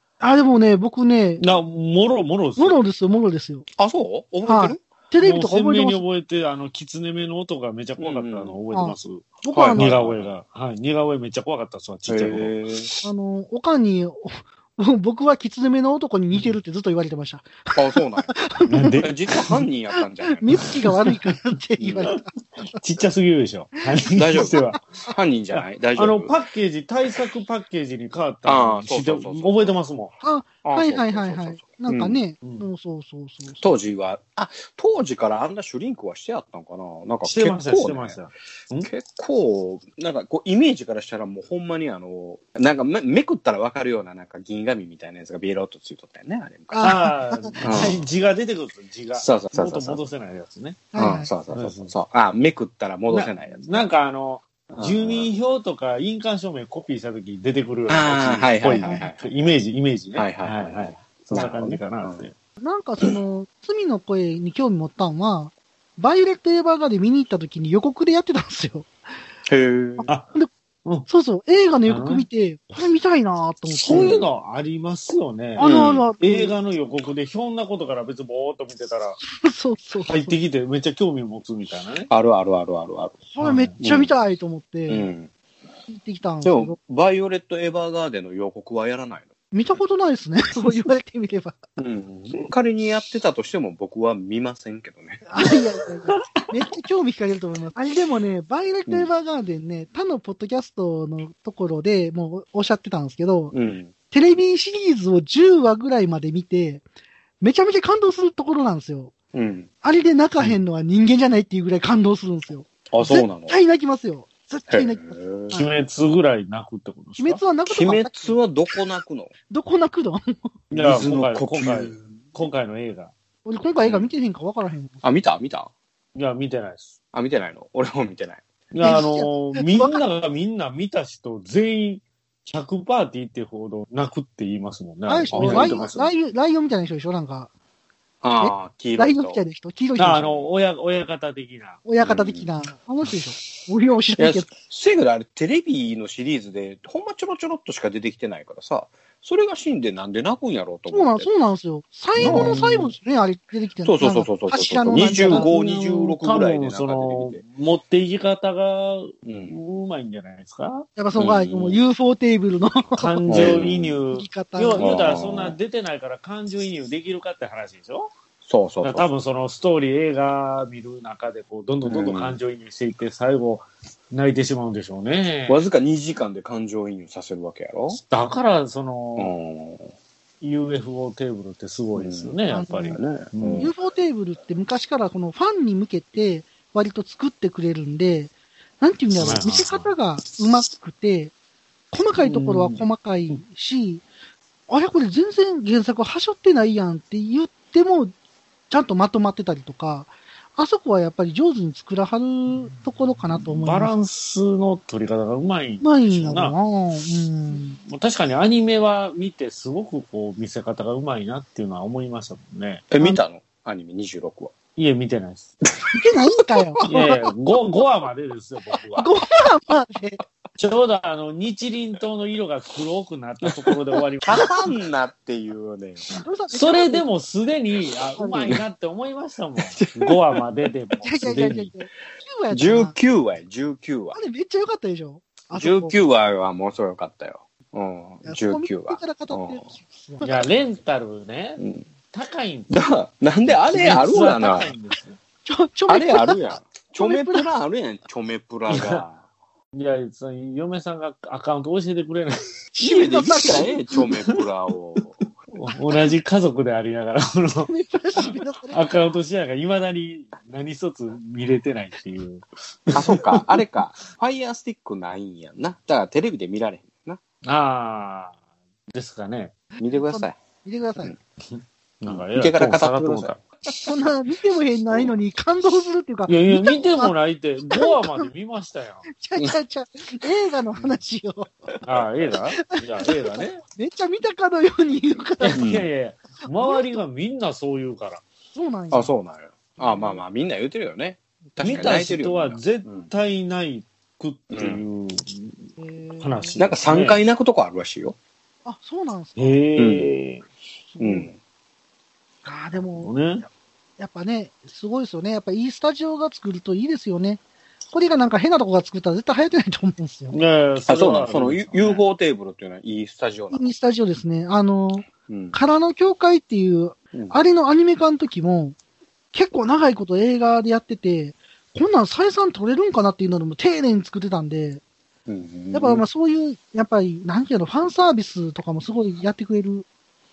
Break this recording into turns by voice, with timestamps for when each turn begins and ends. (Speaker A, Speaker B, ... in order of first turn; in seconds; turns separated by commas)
Speaker A: 0.2-1.4, Speaker B: 1.4-2.8, Speaker A: 2.6-3.7, Speaker C: 3.8-4.8, Speaker A: 4.5-6.0, Speaker B: 5.2-12.6, Speaker C: 8.0-8.6, Speaker A: 8.7-9.9, Speaker C: 9.5-10.3, Speaker C: 12.1-12.9, Speaker A: 13.0-19.1, Speaker C: 17.7-18.3, Speaker B: 18.7-19.6, Speaker C: 19.0-20.5, Speaker A: 20.2-22.3, Speaker C: 21.8-22.1, Speaker B: 22.1-25.0, Speaker C: 24.1-26.4, Speaker B: 25.5-30.1, Speaker C: 28.4-29.7, Speaker A: 30.2-33.7, Speaker C: 30.6-32.2, Speaker C: 33.6-38.2, Speaker B: 37.2-38.9, Speaker C: 38.8-46.9, Speaker A: 46.7-48.0, Speaker B: 46.8-50.9, Speaker C: 47.6-48.0, Speaker C: 49.2-50.0, Speaker A: 50.9-51.3, Speaker C: 51.0-53.9, Speaker B: 51.5-51.9, Speaker B: 53.1-62.3, Speaker C: 54.7-55.3, Speaker C: 57.9-59.5, Speaker A: 58.8-59.1, Speaker C: 60.1-62.3, Speaker A: 62.6-68.9, Speaker C: 69.5-70.1, Speaker A: 70.0-70.5, Speaker A: 71.1-74.2, Speaker B: 71.9-72.3, Speaker B: 73.8-79.2, Speaker C: 73.9-74.3, Speaker A: 75.6-76.5, Speaker C: 75.6-76.0, Speaker A: 79.3-80.4, Speaker B: 80.0-82.1, Speaker C: 82.1-83.2, Speaker A: 83.3-85.1, Speaker B: 83.4-83.7, Speaker C: 83.8-84.1, Speaker C: 84.9-85.3, Speaker A: 85.9-86.8, Speaker C: 86.4-89.3, Speaker A: 89.5-91.6, Speaker C: 91.8-95.3, Speaker A: 95.3-103.5, Speaker B: 96.1-96.5, Speaker C: 103.5-103.9, Speaker A: 104.1-106.8, Speaker A: 107.4-109.2, Speaker C: 109.3-109.7, Speaker A: 109.8-115.7, Speaker C: 112.9-113.6, Speaker C: 114.7-115.6, Speaker B: 115.5-117.4, Speaker A: 117.2-118.3, Speaker C: 117.7-119.3, Speaker A: 119.5-120.3, Speaker C: 120.7-122.1, Speaker B: 120.7-123.1, Speaker A: 123.5-125.0, Speaker C: 123.8-124.1, Speaker C: 125.0-125.7, Speaker B: 126.2-126.9, Speaker C: 127.1-128.4, Speaker B: 128.7-136.1, Speaker A: 128.8-130.0, Speaker A: 135.1-137.5, Speaker C: 135.3-135.9, Speaker C: 138.2-139.4, Speaker A: 138.4-140.4, Speaker B: 140.0-141.8, Speaker A: 141.9-144.5, Speaker C: 142.0-142.5, Speaker C: 144.2-151.3, Speaker A: 150.9-155.5, Speaker B: 152.2-152.9, Speaker C: 152.2-152.6, Speaker C: 153.8-157.4, Speaker B: 154.9-160.9, Speaker C: 159.2-159.6, Speaker A: 161.0-164.9, Speaker C: 161.2-161.8, Speaker B: 163.0-168.1, Speaker C: 163.3-163.9, Speaker C: 164.8-165.6, Speaker C: 168.4-169.1, Speaker B: 168.8-175.6, Speaker C: 171.9-172.4, Speaker C: 175.5-178.0, Speaker B: 177.9-179.3, Speaker C: 179.2-179.9, Speaker B: 180.4-183.7, Speaker C: 182.0-183.7, Speaker A: 182.5-183.0, Speaker A: 183.6-191.3, Speaker B: 189.2-189.9, Speaker A: 191.9-194.0, Speaker B: 192.2-193.4, Speaker A: 194.7-198.1, Speaker A: 198.7-203.9, Speaker B: 203.6-206.6, Speaker A: 205.8-207.8, Speaker B: 207.8-212.8, Speaker C: 212.9-214.6, Speaker B: 214.8-215.5, Speaker A: 215.9-217.2, Speaker B: 216.9-219.1, Speaker A: 219.0-220.2, Speaker B: 220.6-224.5, Speaker C: 224.2-226.1, Speaker A: 226.2-227.0, Speaker B: 226.5-231.7, Speaker A: 228.2-228.5, Speaker C: 229.7-230.2, Speaker A: 231.0-232.9, Speaker C: 232.5-234.2, Speaker A: 234.1-236.0, Speaker C: 235.5-239.6, Speaker A: 238.2-240.3, Speaker B: 240.2-242.8, Speaker C: 241.6-241.9, Speaker C: 242.7-244.7, Speaker B: 243.5-245.2, Speaker A: 245.5-246.4, Speaker C: 245.9-249.2, Speaker A: 247.0-247.4, Speaker B: 248.7-249.0, Speaker B: 249.7-252.4, Speaker A: 252.8-253.7, Speaker C: 252.8-255.2, Speaker B: 255.5-263.6, Speaker A: 257.7-258.8, Speaker C: 262.9-267.2, Speaker B: 267.4-268.4, Speaker B: 268.9-269.6, Speaker C: 269.8-270.4, Speaker A: 269.8-271.1, Speaker B: 271.5-273.4, Speaker C: 272.1-273.8, Speaker A: 273.8-277.1, Speaker C: 274.9-275.2, Speaker B: 276.3-279.1, Speaker A: 277.7-278.3, Speaker A: 279.1-281.7, Speaker C: 280.7-281.0, Speaker B: 281.8-283.6, Speaker A: 282.6-285.6, Speaker B: 285.4-288.2, Speaker C: 285.6-285.9, Speaker A: 286.6-286.9, Speaker A: 288.6-289.1, Speaker C: 288.9-293.1, Speaker A: 289.8-290.2, Speaker B: 291.6-297.2, Speaker A: 291.6-291.9, Speaker C: 294.5-294.8, Speaker A: 295.8-296.6, Speaker C: 296.6-298.2, Speaker A: 298.6-299.7, Speaker B: 299.4-300.4, Speaker C: 299.8-300.1, Speaker A: 300.9-301.3, Speaker C: 301.0-301.4, Speaker A: 302.4-310.4, Speaker B: 303.0-303.4, Speaker B: 310.3-312.0, Speaker C: 310.9-313.7, Speaker A: 313.5-318.8, Speaker C: 315.3-315.6, Speaker C: 317.1-317.4, Speaker A: 319.3-324.8, Speaker C: 325.3-326.0, Speaker A: 325.7-329.9